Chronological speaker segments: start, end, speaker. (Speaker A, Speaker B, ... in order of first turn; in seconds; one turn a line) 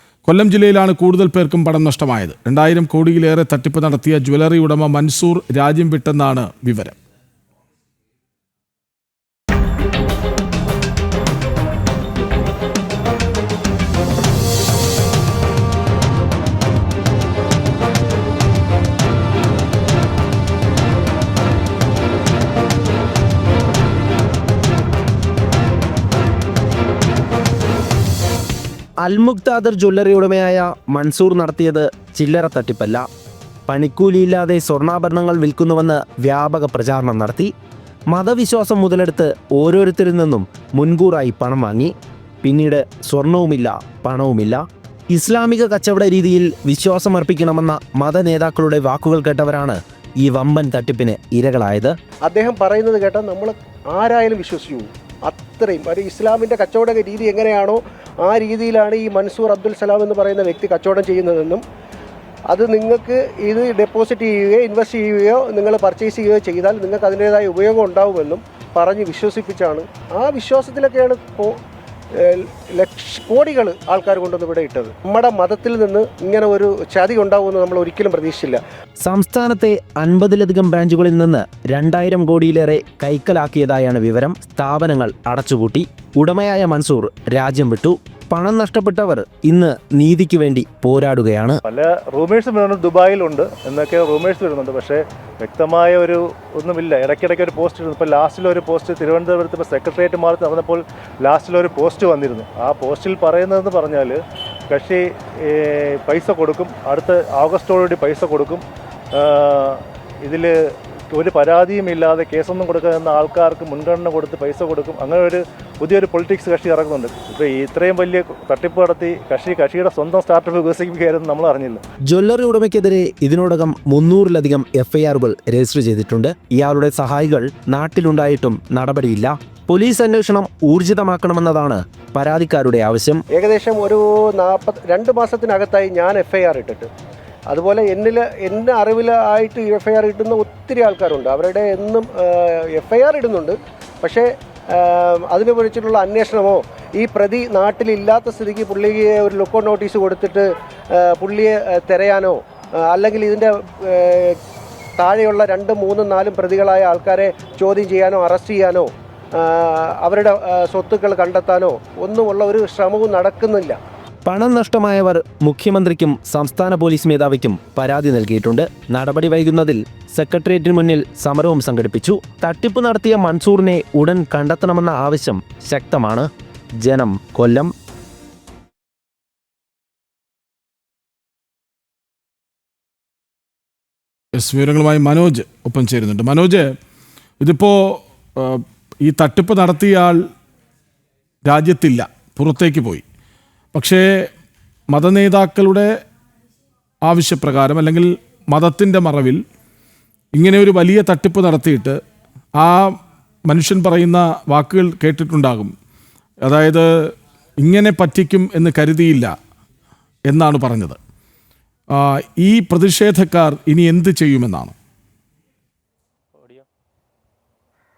Speaker A: 0.3-7.0
Speaker B: 29.0-33.1
Speaker B: 33.7-37.5
Speaker B: 38.1-52.0
Speaker C: 52.2-61.6
Speaker C: 62.5-71.6
Speaker C: 72.2-78.6
Speaker B: 79.0-91.6
Speaker D: 91.6-121.8
Speaker B: 122.1-133.2
Speaker C: 133.3-136.9
Speaker C: 137.5-154.4
Speaker C: 155.0-163.8
Speaker B: 164.3-176.3
Speaker B: 176.8-177.7
Speaker A: 184.4-186.7
Speaker A: 187.4-190.2
Speaker A: 191.5-193.0
Speaker A: 193.7-194.3
Speaker A: 194.9-195.9
Speaker A: 197.0-199.4
Speaker A: 200.4-202.0
Speaker A: 202.6-202.9
Speaker A: 203.5-205.7
Speaker A: 206.4-206.9
Speaker A: 207.6-209.3
Speaker A: 210.3-211.0
Speaker A: 211.9-214.8